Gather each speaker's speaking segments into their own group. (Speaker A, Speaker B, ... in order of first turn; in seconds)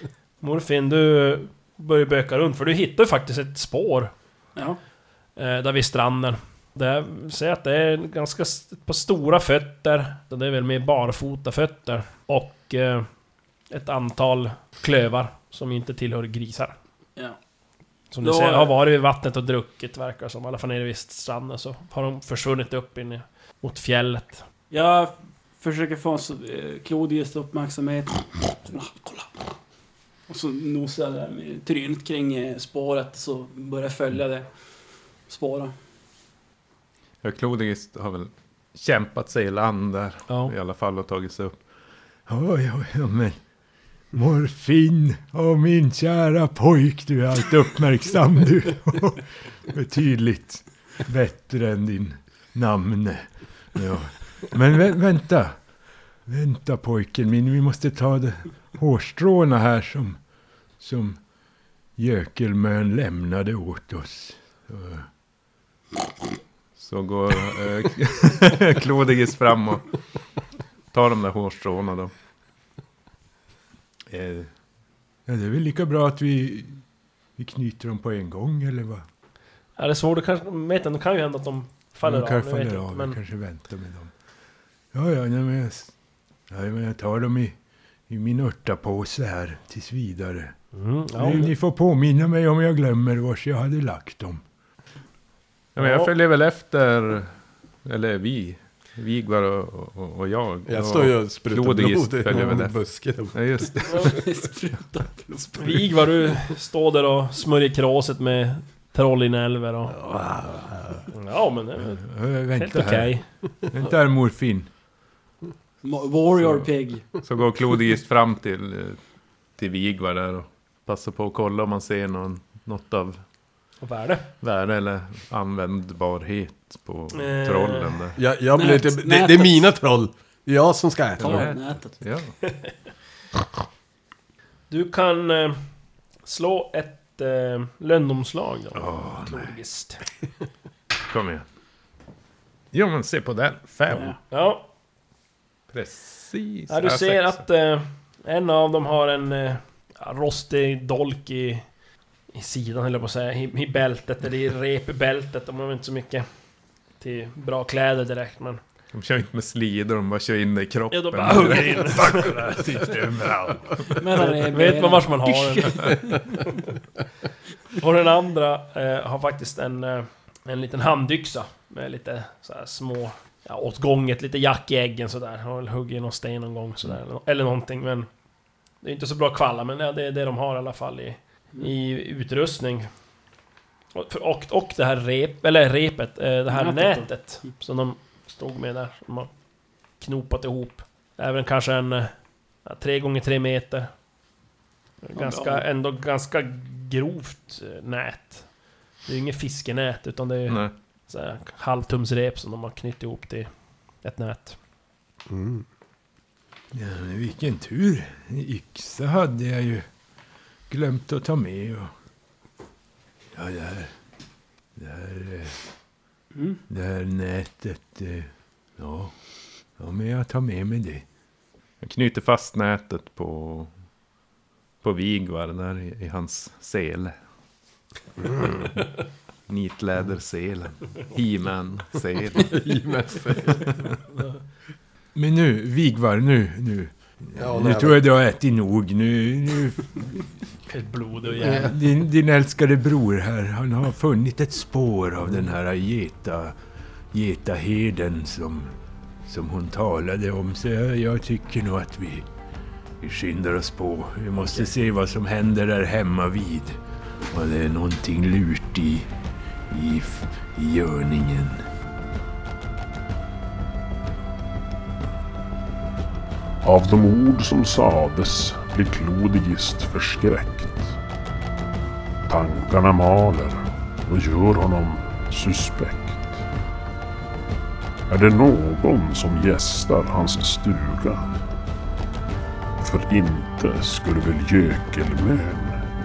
Speaker A: 0.4-4.1, 5.4-13.1, 13.7-16.8, 18.1-24.4, 40.3-40.5, 79.8-83.2, 90.7-91.5, 95.8-96.1, 105.6-110.0, 111.1-113.3, 123.8-124.3, 127.1-128.1, 132.4-132.7, 134.7-135.6, 136.2-140.0, 144.3-144.7, 146.7-151.7, 152.3-156.3, 157.0-158.6, 160.9-162.6, 164.2-165.9, 167.8-178.1, 178.8-182.9, 183.9-189.3, 190.0-193.9, 195.0-198.5, 199.0-204.6, 240.7-241.8
Speaker B: 18.2-18.7, 24.7-29.4, 30.3-34.6, 35.3-35.7, 103.9-105.6, 115.8-117.1, 128.5-129.7, 131.2-132.0, 143.9-144.2, 164.0-166.4, 186.5-187.5, 195.2-195.6, 216.3-216.6
Speaker C: 37.2-41.6, 66.8-70.0, 70.9-72.1, 74.1-74.5, 95.8-104.3, 117.2-119.0, 119.6-123.2, 124.4-128.2, 131.2-132.4, 141.1-141.5, 142.7-144.2, 145.7-147.4, 158.9-163.3, 200.5-200.7, 221.8-223.7, 224.8-227.1, 229.5-232.6
Speaker D: 42.3-43.4, 44.1-60.2, 60.8-61.2, 62.0-65.1, 74.1-74.5, 75.3-76.8, 77.4-79.0, 82.0-84.1, 84.9-86.0, 86.5-87.6, 88.1-90.5, 91.1-94.4, 112.0-114.7, 138.9-139.4, 161.9-164.0, 206.7-209.9, 210.7-211.9, 213.3-213.9, 214.8-215.7, 216.7-221.1, 235.2-240.2, 241.4-246.6, 247.1-252.3, 253.0-256.8, 257.3-259.1, 259.7-261.6
Speaker E: 100.7-103.9, 109.9-111.1, 128.2-131.6, 205.3-205.7, 232.5-233.7, 237.4-238.1, 241.4-241.7
Speaker F: 266.6-271.0, 272.3-276.4, 278.1-281.3, 282.8-285.8